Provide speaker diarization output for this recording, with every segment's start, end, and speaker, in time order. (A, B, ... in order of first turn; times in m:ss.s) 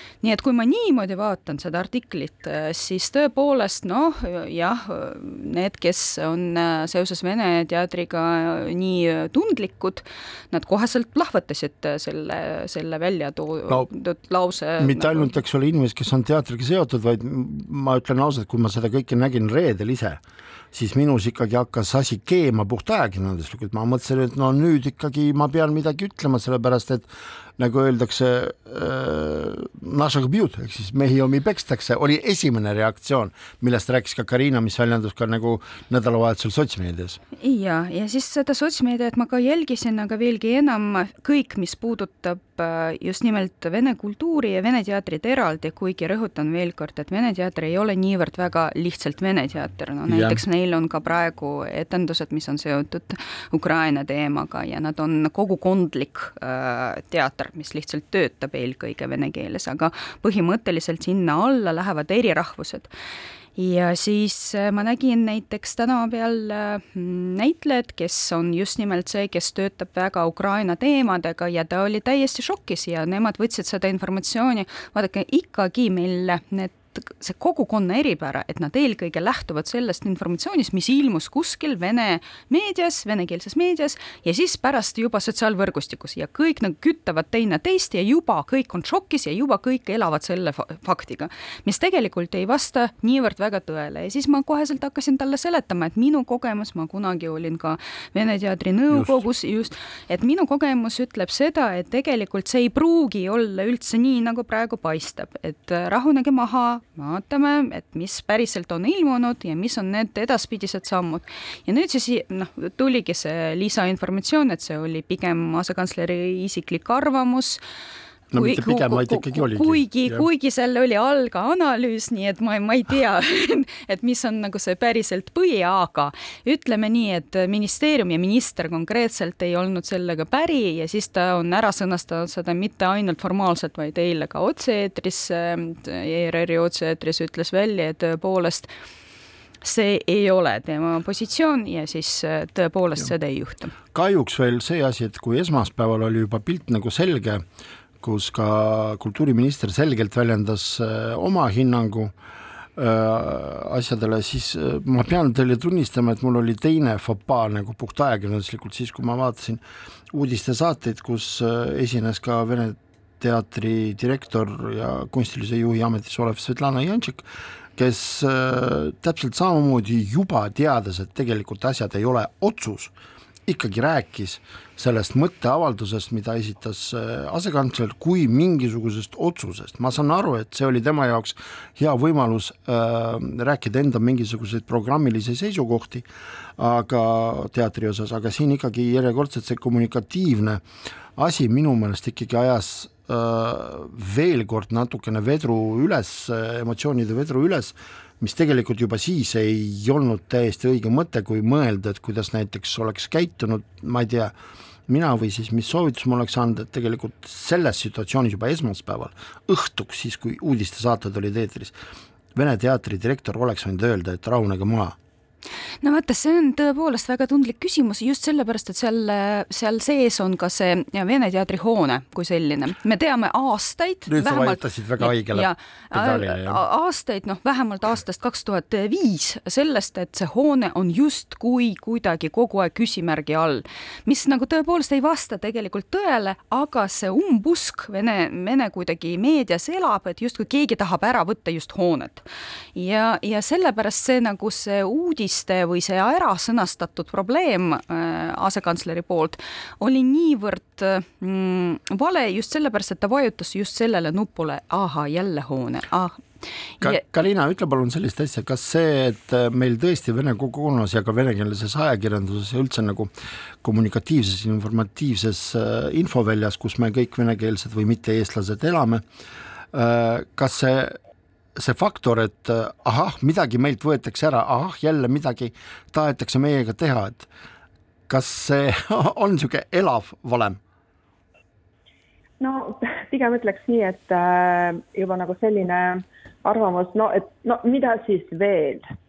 0:00.2-0:15.3 A
0:14.8-0:20.2 B
0:20.7-0:37.2 B
0:37.4-1:02.9 A
0:50.1-0:50.4 B
1:03.6-1:57.6 A
1:38.9-1:39.2 B
1:58.3-2:00.3 B
1:58.3-2:18.7 A
2:19.6-2:23.7 A
2:23.9-2:27.4 B
2:28.0-2:32.1 B
2:32.8-2:52.9 B
2:53.5-3:10.6 B
3:11.2-3:24.3 B
3:24.9-3:31.8 B
3:32.4-3:35.0 B
3:35.8-4:16.2 A
3:44.1-3:46.6 B
4:16.8-4:23.1 B
4:23.6-4:29.0 B
4:29.7-4:31.0 B
4:31.6-4:37.3 B
4:38.1-4:40.6 B
4:42.4-4:48.8 C